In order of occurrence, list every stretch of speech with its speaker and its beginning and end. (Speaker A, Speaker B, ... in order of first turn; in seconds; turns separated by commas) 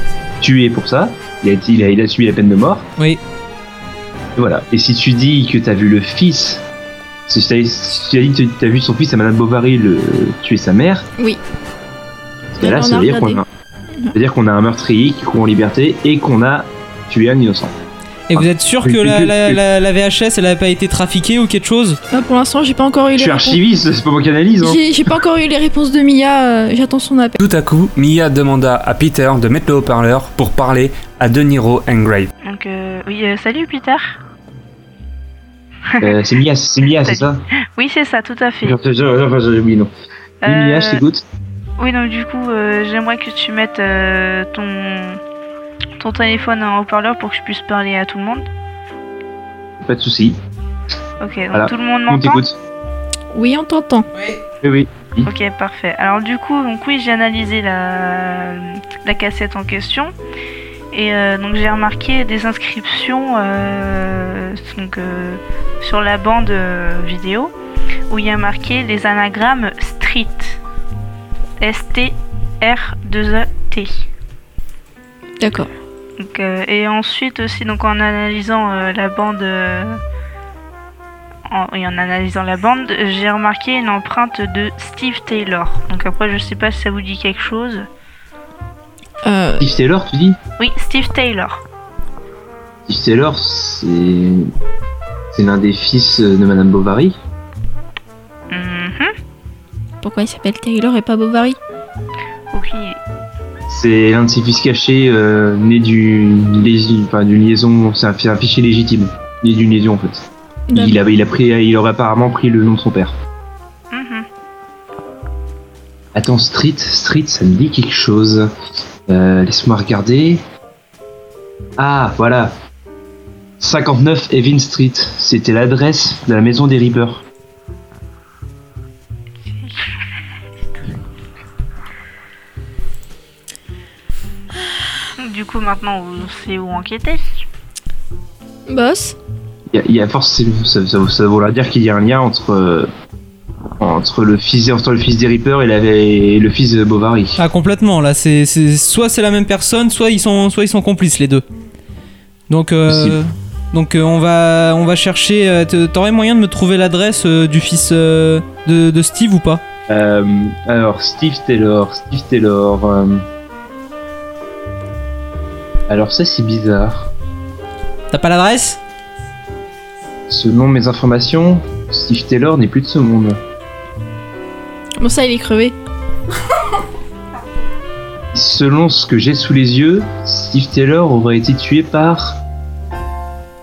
Speaker A: 0.4-2.9, Speaker A: 4.3-6.6, Speaker A: 7.3-11.1, Speaker A: 12.5-13.4, Speaker B: 12.6-13.4, Speaker A: 14.1-17.7, Speaker C: 18.3-22.0, Speaker A: 18.3-19.6, Speaker B: 22.1-23.6, Speaker A: 23.1-24.8, Speaker B: 24.6-27.4, Speaker D: 27.4-32.3, Speaker E: 32.4-34.2, Speaker E: 35.9-36.2, Speaker A: 36.0-37.4, Speaker E: 37.0-38.8, Speaker A: 38.6-39.9, Speaker E: 40.4-41.0, Speaker A: 40.4-41.2, Speaker E: 41.8-45.2, Speaker E: 46.0-48.5, Speaker A: 49.8-50.4, Speaker E: 51.2-52.4, Speaker A: 51.5-52.6, Speaker B: 53.3-54.1, Speaker C: 54.1-54.4, Speaker A: 54.6-55.3, Speaker E: 55.2-60.1, Speaker E: 60.9-67.5, Speaker E: 68.1-70.6, Speaker E: 71.6-74.0, Speaker B: 75.4-75.7, Speaker E: 76.2-80.0, Speaker E: 81.5-87.9, Speaker B: 89.2-89.7, Speaker A: 89.6-90.4, Speaker E: 90.6-91.6, Speaker A: 92.9-94.5, Speaker A: 95.3-97.2, Speaker E: 98.5-99.1, Speaker B: 100.0-101.6, Speaker E: 102.5-103.0, Speaker A: 103.7-113.2, Speaker B: 110.7-111.0, Speaker E: 113.9-114.3, Speaker A: 116.1-118.5, Speaker A: 119.1-120.4, Speaker A: 121.8-122.5, Speaker A: 123.6-127.2, Speaker E: 135.2-137.3, Speaker B: 138.7-139.2, Speaker A: 139.7-142.9, Speaker A: 143.8-147.4, Speaker C: 147.4-151.4, Speaker C: 152.5-159.6, Speaker A: 152.9-153.2, Speaker A: 159.9-163.2, Speaker A: 165.9-167.1, Speaker C: 168.1-168.8, Speaker A: 170.3-173.4, Speaker B: 175.0-175.8, Speaker A: 178.3-182.4